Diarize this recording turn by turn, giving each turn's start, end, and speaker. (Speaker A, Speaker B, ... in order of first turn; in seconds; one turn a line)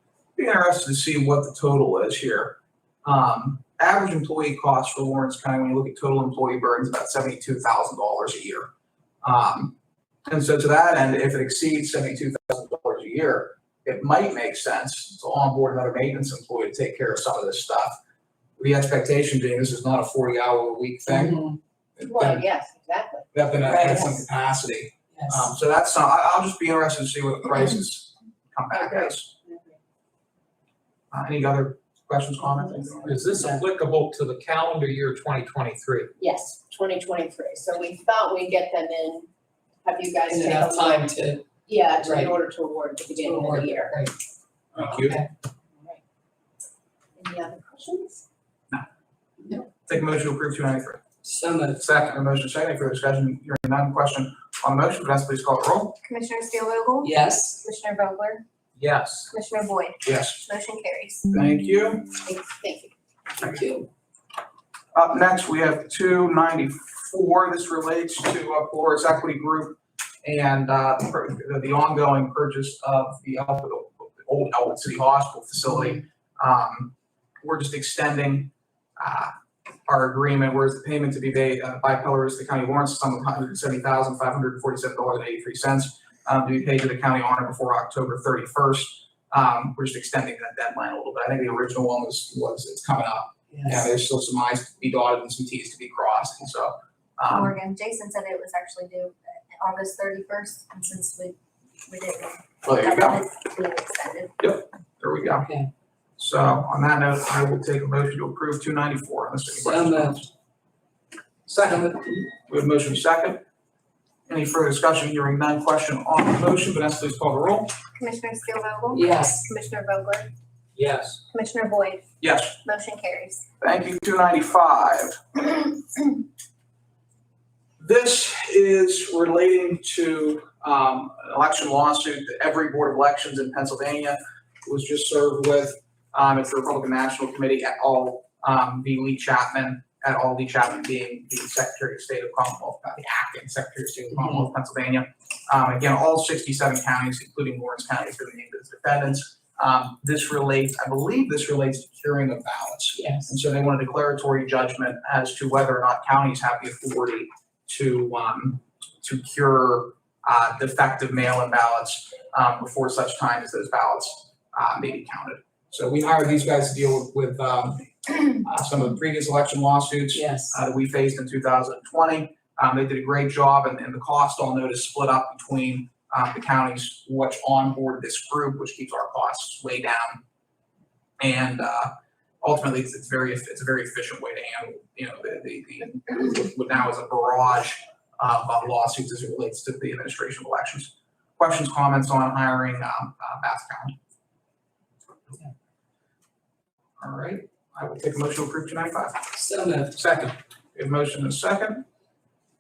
Speaker A: 0.4-8.7
Speaker A: 9.2-9.8
Speaker A: 10.3-18.0
Speaker A: 18.6-21.4
Speaker B: 21.1-21.6
Speaker A: 22.0-22.4
Speaker C: 22.0-23.3
Speaker A: 23.3-29.3
Speaker B: 23.6-24.1
Speaker C: 23.8-24.2
Speaker B: 25.1-25.5
Speaker C: 28.7-29.8
Speaker A: 31.1-33.2
Speaker D: 33.0-36.1
Speaker B: 33.3-33.6
Speaker C: 36.2-39.3
Speaker C: 39.8-41.1
Speaker B: 40.3-41.4
Speaker C: 41.7-44.0
Speaker B: 42.0-42.3
Speaker B: 43.2-44.1
Speaker C: 44.8-45.0
Speaker A: 44.8-45.2
Speaker B: 44.8-45.3
Speaker C: 47.2-48.2
Speaker A: 49.9-51.0
Speaker B: 51.2-52.1
Speaker A: 51.8-56.0
Speaker E: 56.0-58.4
Speaker B: 57.0-57.6
Speaker D: 58.8-59.3
Speaker E: 59.3-61.3
Speaker A: 60.0-60.4
Speaker A: 61.3-62.1
Speaker C: 62.2-62.9
Speaker B: 63.4-63.9
Speaker A: 64.9-79.3
Speaker A: 79.9-97.5
Speaker B: 93.5-93.9
Speaker E: 97.3-104.3
Speaker A: 102.6-103.2
Speaker A: 104.4-105.5
Speaker B: 105.3-105.7
Speaker A: 106.2-110.3
Speaker B: 109.6-110.2
Speaker B: 111.5-112.3
Speaker A: 112.5-113.4
Speaker A: 114.3-117.7
Speaker E: 118.0-120.3
Speaker B: 118.9-119.5
Speaker D: 120.8-121.2
Speaker E: 121.3-122.0
Speaker A: 122.2-122.6
Speaker E: 122.6-123.4
Speaker A: 123.6-125.7
Speaker A: 127.8-180.2
Speaker B: 144.1-144.5
Speaker B: 153.0-153.3
Speaker B: 170.1-170.6
Speaker A: 181.2-194.0
Speaker A: 197.0-199.3
Speaker B: 199.3-200.3
Speaker A: 200.0-201.8